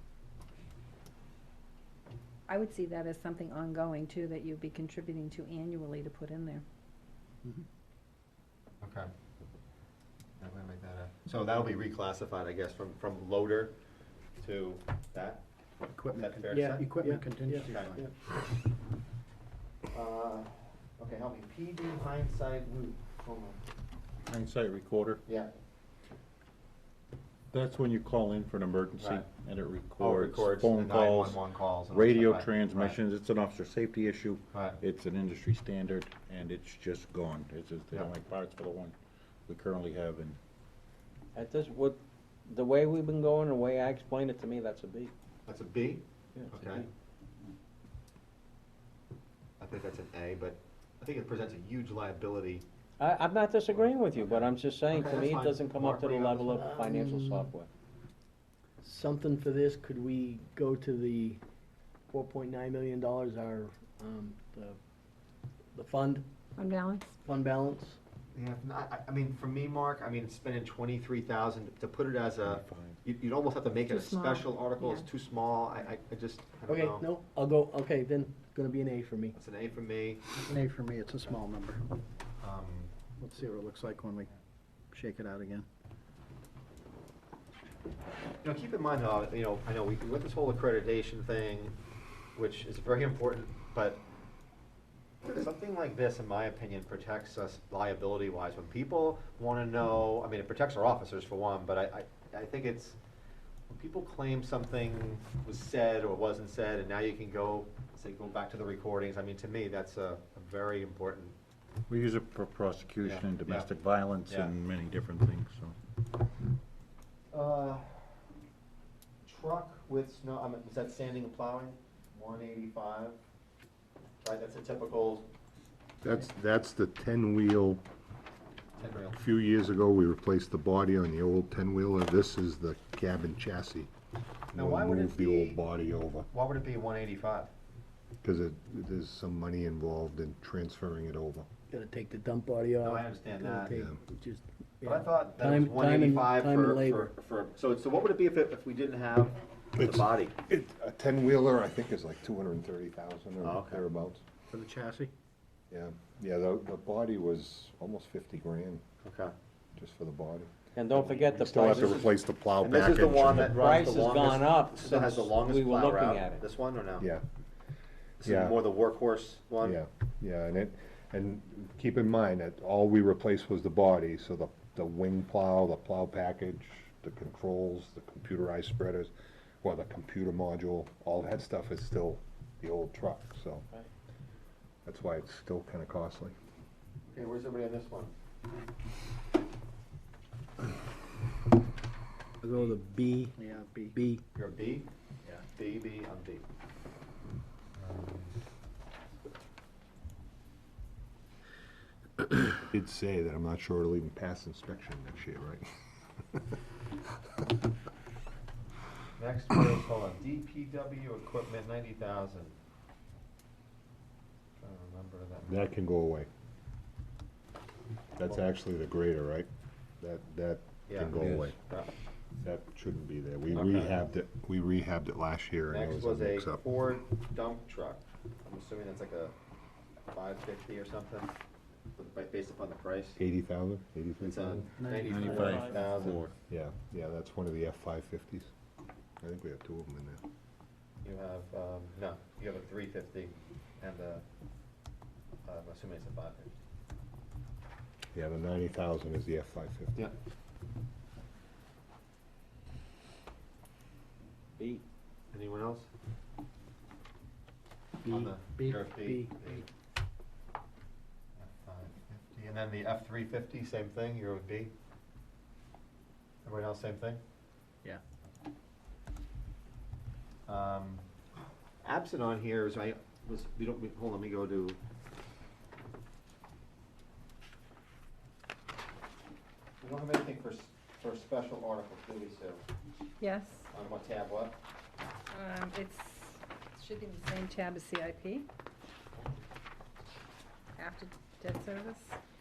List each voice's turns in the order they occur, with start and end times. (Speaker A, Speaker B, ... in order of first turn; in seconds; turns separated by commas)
Speaker A: 2.5-6.6, Speaker B: 8.8-9.1, Speaker B: 10.4-13.8, Speaker B: 14.4-15.4, Speaker C: 16.0-18.0, Speaker B: 16.1-16.9, Speaker D: 16.5-18.1, Speaker B: 17.5-18.1, Speaker B: 19.9-23.6, Speaker E: 24.3-25.2, Speaker E: 27.5-39.0, Speaker B: 29.0-29.3, Speaker B: 30.0-33.0, Speaker B: 34.5-34.8, Speaker E: 39.5-40.4, Speaker F: 41.4-45.1, Speaker B: 45.5-46.9, Speaker F: 46.4-46.9, Speaker B: 49.6-52.7, Speaker F: 53.0-57.7, Speaker B: 53.7-56.7, Speaker D: 56.6-57.5, Speaker D: 58.8-61.4, Speaker D: 62.1-64.8, Speaker D: 65.7-66.3, Speaker A: 66.6-67.2, Speaker D: 67.2-68.0, Speaker B: 68.3-77.1, Speaker E: 72.4-73.0, Speaker A: 73.9-75.1, Speaker D: 76.7-79.4, Speaker B: 79.4-80.2, Speaker C: 80.4-81.5, Speaker B: 82.4-82.9, Speaker C: 83.2-84.2, Speaker C: 84.9-85.6, Speaker B: 88.4-91.8, Speaker B: 92.4-94.0, Speaker B: 95.3-103.0, Speaker B: 103.7-111.3, Speaker E: 111.9-115.8, Speaker B: 113.0-113.7, Speaker B: 114.3-114.5, Speaker B: 117.3-118.1, Speaker B: 119.2-123.2, Speaker B: 124.2-125.3, Speaker G: 126.0-127.8, Speaker B: 128.8-129.2, Speaker G: 129.1-133.9, Speaker G: 134.5-136.3, Speaker B: 134.6-135.6, Speaker B: 136.3-137.5, Speaker G: 138.2-141.5, Speaker D: 141.7-147.1, Speaker B: 142.8-143.8, Speaker G: 143.7-144.0, Speaker B: 144.8-150.4, Speaker G: 149.8-154.2, Speaker B: 153.4-153.8, Speaker C: 154.5-155.1, Speaker G: 155.7-158.8, Speaker B: 159.0-159.3, Speaker G: 159.8-160.5, Speaker F: 160.8-162.1, Speaker B: 160.9-167.1, Speaker G: 161.3-163.6, Speaker F: 163.4-166.4, Speaker G: 168.2-168.6, Speaker B: 168.2-169.8, Speaker G: 169.6-183.7, Speaker G: 184.8-186.3, Speaker B: 187.1-188.1, Speaker D: 192.4-194.2, Speaker C: 193.4-193.8, Speaker B: 194.3-194.9, Speaker B: 195.5-196.4, Speaker B: 197.8-198.4, Speaker G: 202.6-205.7, Speaker B: 209.2-212.6, Speaker B: 214.6-215.5, Speaker G: 215.4-216.3, Speaker G: 218.2-219.5, Speaker G: 220.0-221.6, Speaker B: 220.9-221.9, Speaker E: 221.2-221.5, Speaker G: 222.4-226.6, Speaker E: 223.5-224.0, Speaker B: 225.7-229.3, Speaker B: 230.1-231.3, Speaker B: 232.0-233.2, Speaker G: 233.2-234.7, Speaker B: 234.2-236.2, Speaker C: 234.8-235.7, Speaker E: 235.0-236.3, Speaker G: 236.5-238.5, Speaker G: 239.2-240.2, Speaker B: 241.0-244.2, Speaker B: 245.4-246.5, Speaker G: 248.1-250.0, Speaker B: 255.3-255.9, Speaker D: 258.0-259.3, Speaker B: 258.1-259.7, Speaker B: 261.4-264.7, Speaker B: 266.4-267.2, Speaker B: 270.5-271.1, Speaker B: 271.8-274.8, Speaker B: 279.8-282.6, Speaker A: 283.2-283.7, Speaker B: 283.7-284.6, Speaker A: 285.3-288.5, Speaker A: 290.8-292.2